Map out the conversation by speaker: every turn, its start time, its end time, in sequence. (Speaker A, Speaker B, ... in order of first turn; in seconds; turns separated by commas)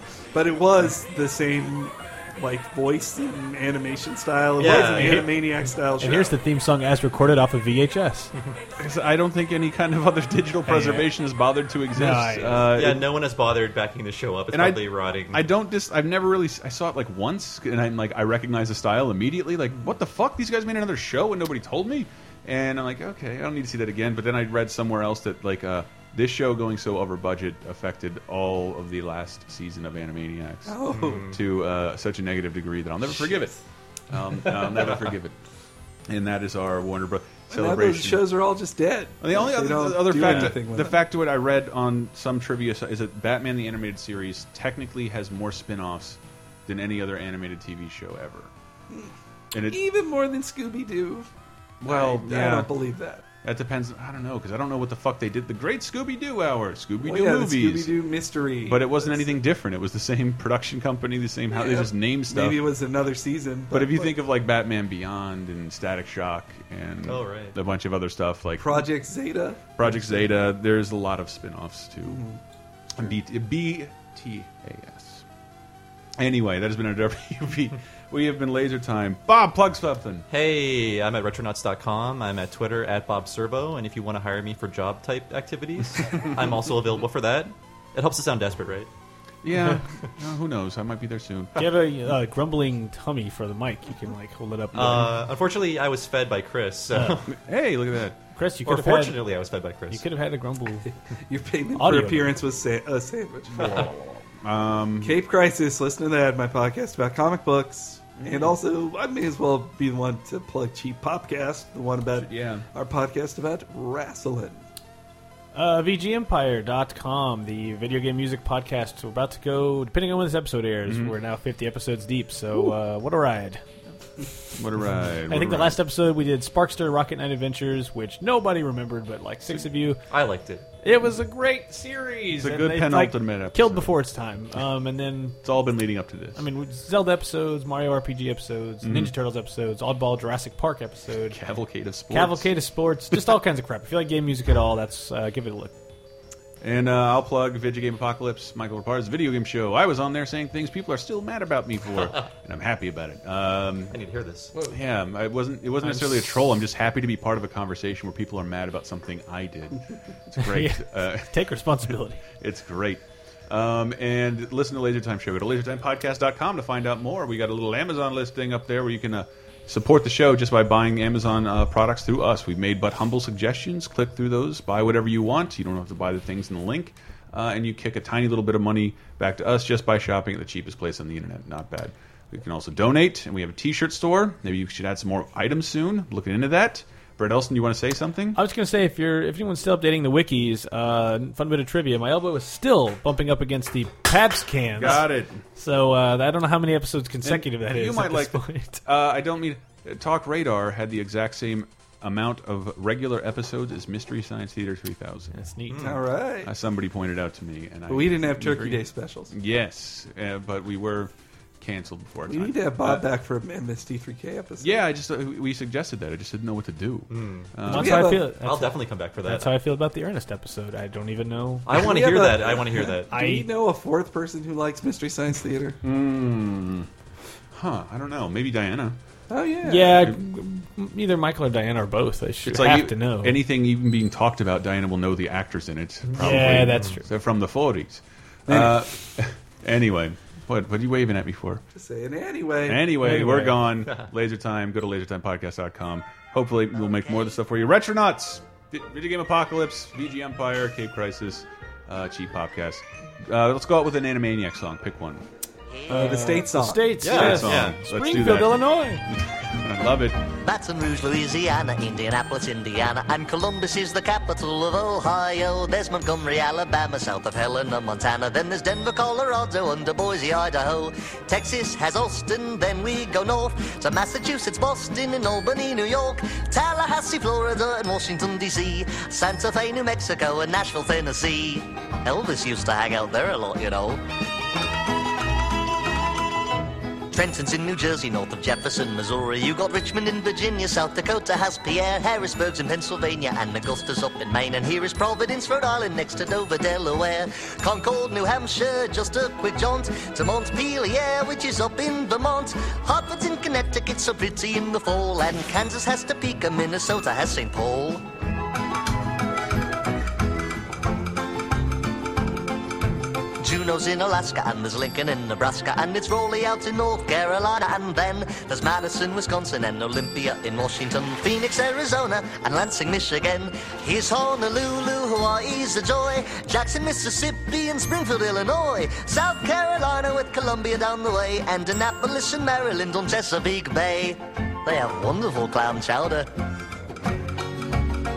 Speaker A: 0.3-6.4, Speaker B: 4.6-5.4, Speaker C: 4.7-5.3, Speaker C: 6.0-8.3, Speaker D: 8.8-13.1, Speaker C: 10.7-11.1, Speaker C: 11.9-12.7, Speaker B: 12.7-15.5, Speaker D: 14.5-33.6, Speaker A: 30.7-31.3, Speaker B: 30.9-31.4, Speaker A: 33.1-33.5, Speaker D: 34.1-35.4, Speaker D: 36.1-38.3, Speaker A: 37.5-41.0, Speaker D: 39.2-48.5, Speaker D: 49.5-49.8, Speaker A: 49.7-51.3, Speaker D: 51.8-52.7, Speaker A: 51.8-53.2, Speaker D: 53.4-58.0, Speaker A: 57.0-59.4, Speaker D: 58.6-62.7, Speaker A: 61.5-64.1, Speaker D: 63.7-68.9, Speaker B: 67.0-67.6, Speaker A: 68.6-70.3, Speaker D: 69.8-72.2, Speaker A: 72.0-72.4, Speaker D: 73.0-75.2, Speaker D: 76.2-80.3, Speaker B: 80.3-88.9, Speaker D: 89.4-91.7, Speaker C: 91.6-95.1, Speaker B: 94.7-97.3, Speaker D: 94.8-95.0, Speaker C: 96.9-97.2, Speaker D: 97.3-98.2, Speaker C: 98.3-99.2, Speaker B: 98.7-100.0, Speaker C: 99.9-100.9, Speaker A: 101.3-103.9, Speaker C: 101.7-102.3, Speaker D: 103.5-105.2, Speaker B: 103.6-103.9, Speaker A: 105.0-114.6, Speaker D: 108.2-108.6, Speaker D: 112.1-112.7, Speaker C: 115.5-123.6, Speaker D: 120.8-121.2, Speaker D: 124.5-125.8, Speaker C: 125.3-130.0, Speaker B: 130.1-130.7, Speaker C: 130.8-135.4, Speaker D: 132.4-133.9, Speaker D: 135.4-136.4, Speaker C: 136.4-141.4, Speaker D: 138.8-139.1, Speaker D: 141.2-142.5, Speaker C: 142.1-145.7, Speaker D: 146.6-154.0, Speaker B: 153.9-154.5, Speaker D: 154.6-161.3, Speaker C: 155.8-156.4, Speaker C: 160.4-162.2, Speaker D: 161.9-188.4, Speaker C: 188.3-198.8, Speaker D: 194.8-195.4, Speaker D: 197.2-205.3, Speaker C: 205.3-205.9, Speaker B: 205.7-206.0, Speaker A: 205.8-206.5, Speaker D: 206.4-213.1, Speaker A: 207.9-209.3, Speaker A: 212.3-214.8, Speaker D: 214.6-218.1, Speaker B: 217.1-219.6, Speaker C: 217.7-221.7, Speaker A: 217.7-218.3, Speaker B: 221.7-223.1, Speaker A: 221.7-225.8, Speaker C: 223.1-223.5, Speaker D: 225.8-226.9, Speaker D: 227.5-229.0, Speaker A: 229.3-230.1, Speaker C: 229.7-233.4, Speaker D: 232.4-241.6, Speaker C: 236.1-237.0, Speaker A: 238.5-238.9, Speaker A: 241.7-242.9, Speaker D: 242.7-255.2, Speaker C: 243.0-243.6, Speaker C: 255.9-259.0, Speaker A: 255.9-257.0, Speaker B: 257.0-257.8, Speaker D: 257.0-260.2, Speaker E: 260.4-284.0, Speaker E: 287.1-308.0, Speaker E: 313.4-336.3